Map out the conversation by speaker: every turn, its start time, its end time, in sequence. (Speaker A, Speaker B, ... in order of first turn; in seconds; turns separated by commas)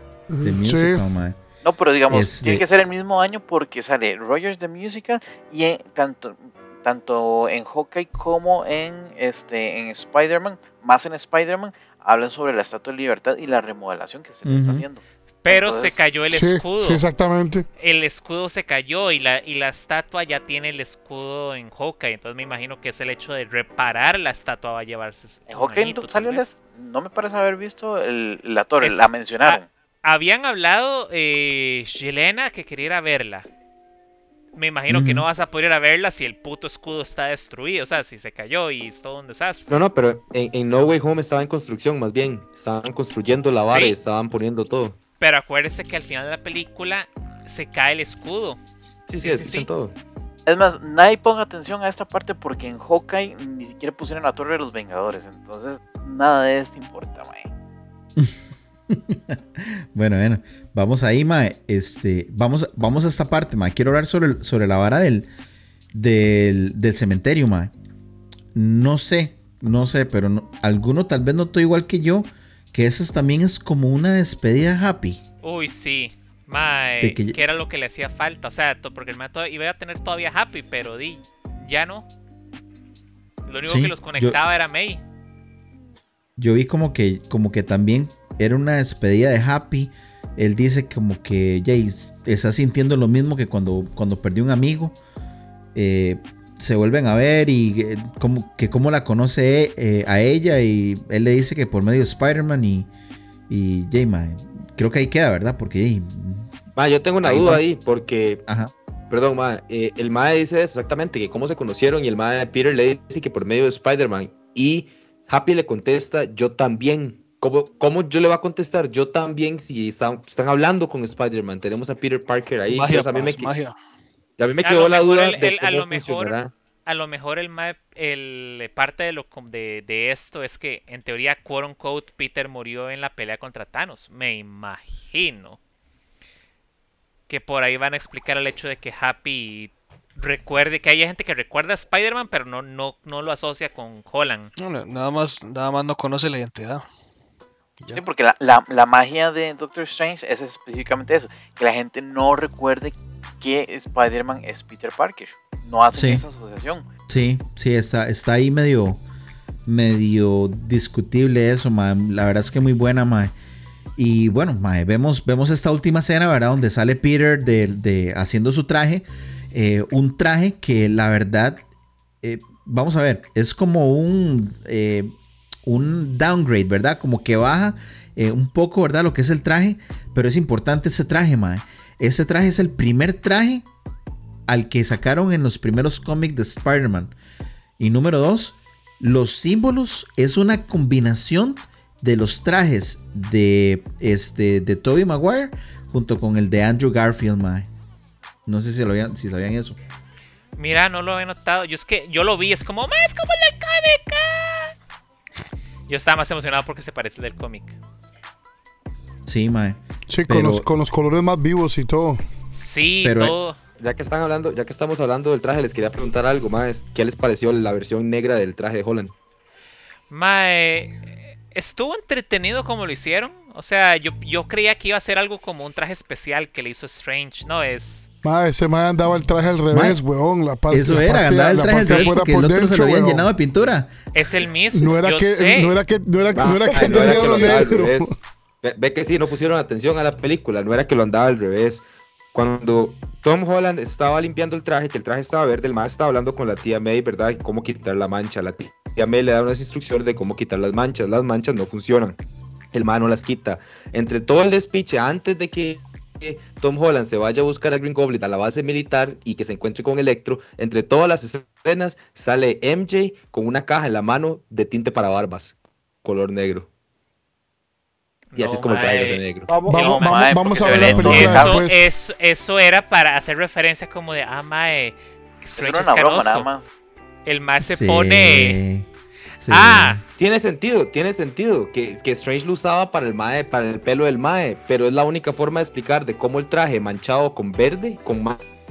Speaker A: 0.3-1.0, Speaker B: 0.4-1.4, Speaker C: 1.6-16.0, Speaker B: 2.1-2.6, Speaker B: 14.4-14.8, Speaker D: 15.4-17.0, Speaker A: 16.3-17.7, Speaker D: 17.8-26.5, Speaker C: 25.5-29.7, Speaker D: 28.8-33.5, Speaker D: 34.5-39.7, Speaker B: 34.9-35.3, Speaker E: 39.7-45.0, Speaker D: 43.7-44.0, Speaker D: 45.2-48.6, Speaker E: 49.1-49.9, Speaker D: 49.2-49.7, Speaker C: 50.5-57.5, Speaker B: 58.9-65.3, Speaker B: 65.9-67.7, Speaker B: 68.5-75.2, Speaker D: 75.4-82.1, Speaker B: 77.0-77.4, Speaker D: 83.5-85.0, Speaker B: 83.7-84.4, Speaker B: 86.4-95.0, Speaker B: 95.8-102.9, Speaker B: 103.5-106.5, Speaker E: 106.8-108.4, Speaker B: 107.2-107.6, Speaker B: 108.5-108.7, Speaker E: 109.1-123.5, Speaker F: 122.7-123.8, Speaker E: 124.4-126.5, Speaker D: 124.6-135.6, Speaker D: 137.3-144.5, Speaker F: 144.6-146.8, Speaker C: 147.9-156.9, Speaker B: 155.9-156.2, Speaker B: 157.1-159.0, Speaker B: 159.7-163.3, Speaker B: 164.0-171.6, Speaker B: 172.2-175.1, Speaker B: 175.7-183.7, Speaker B: 184.5-187.1, Speaker B: 187.8-197.7, Speaker B: 198.5-199.8, Speaker D: 200.6-204.8, Speaker D: 205.9-207.8, Speaker B: 209.3-210.7, Speaker A: 210.1-212.2, Speaker D: 212.5-213.6, Speaker B: 213.0-213.4, Speaker E: 213.8-219.1, Speaker D: 220.1-228.1, Speaker A: 228.2-233.3, Speaker B: 229.7-230.0, Speaker B: 230.7-233.9, Speaker D: 231.8-232.2, Speaker D: 234.1-235.7, Speaker A: 234.7-238.2, Speaker E: 236.3-252.2, Speaker B: 237.1-237.5, Speaker E: 252.7-266.7, Speaker D: 268.3-276.5, Speaker E: 268.4-269.5, Speaker C: 269.6-271.6, Speaker A: 269.7-271.9, Speaker B: 270.9-271.4, Speaker C: 275.6-276.7, Speaker D: 277.3-278.6, Speaker B: 277.7-278.9, Speaker B: 279.4-280.0, Speaker D: 279.5-280.0, Speaker E: 280.2-288.4